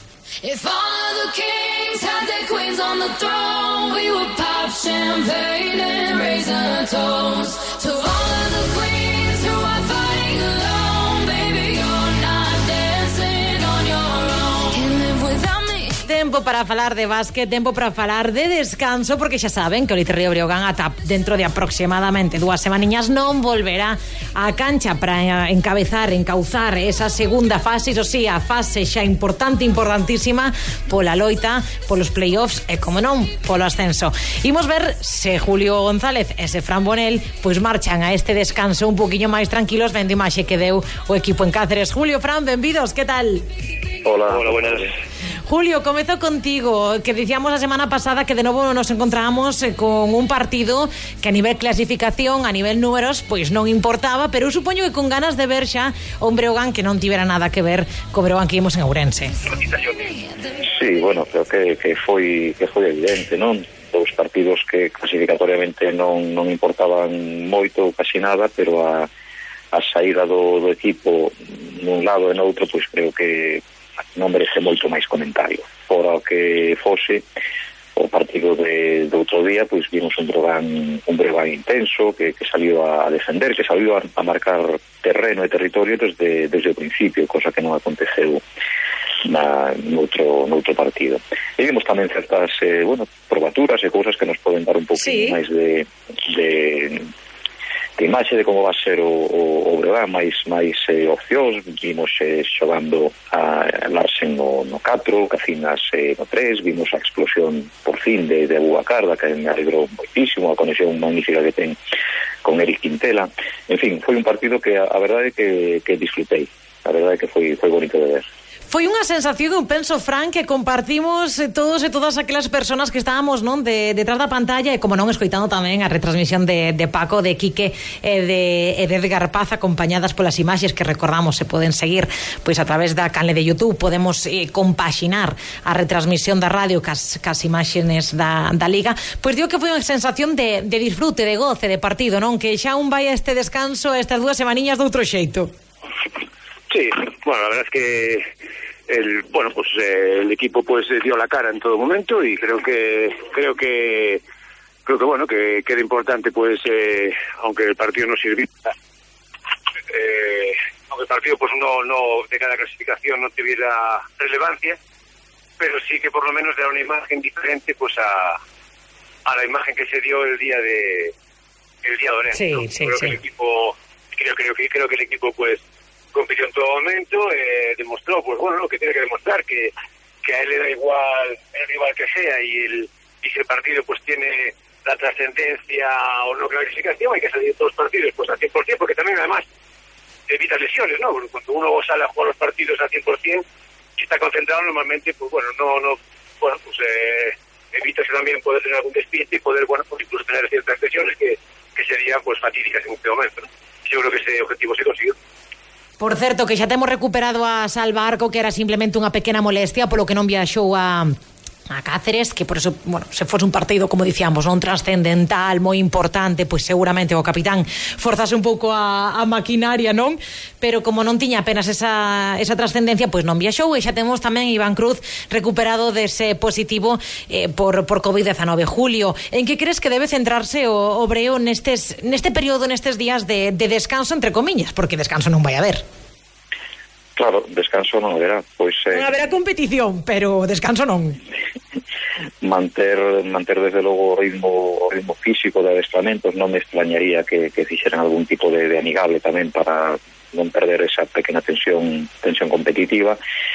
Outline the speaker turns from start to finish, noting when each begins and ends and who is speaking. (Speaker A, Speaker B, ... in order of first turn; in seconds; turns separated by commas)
Speaker A: 0.4-16.0, Speaker B: 16.1-43.5, Speaker C: 44.0-44.9, Speaker D: 44.3-44.8, Speaker B: 45.5-59.3, Speaker D: 59.5-60.1, Speaker C: 60.6-69.1, Speaker C: 69.7-73.6, Speaker C: 74.2-77.2, Speaker C: 78.0-88.4, Speaker C: 89.2-97.1, Speaker B: 94.9-95.3, Speaker C: 98.0-111.8, Speaker C: 112.4-118.2, Speaker B: 118.7-145.5, Speaker E: 146.7-148.3, Speaker E: 148.9-154.2, Speaker E: 154.8-158.7, Speaker D: 159.9-164.8, Speaker D: 165.6-168.4, Speaker D: 169.2-171.1, Speaker D: 171.8-175.6, Speaker B: 172.3-173.2, Speaker D: 176.1-179.7, Speaker D: 180.2-189.4, Speaker D: 190.3-193.4, Speaker D: 194.0-205.1, Speaker B: 206.0-211.2, Speaker B: 211.7-235.8, Speaker C: 237.2-239.2, Speaker B: 238.9-241.2, Speaker C: 242.4-253.2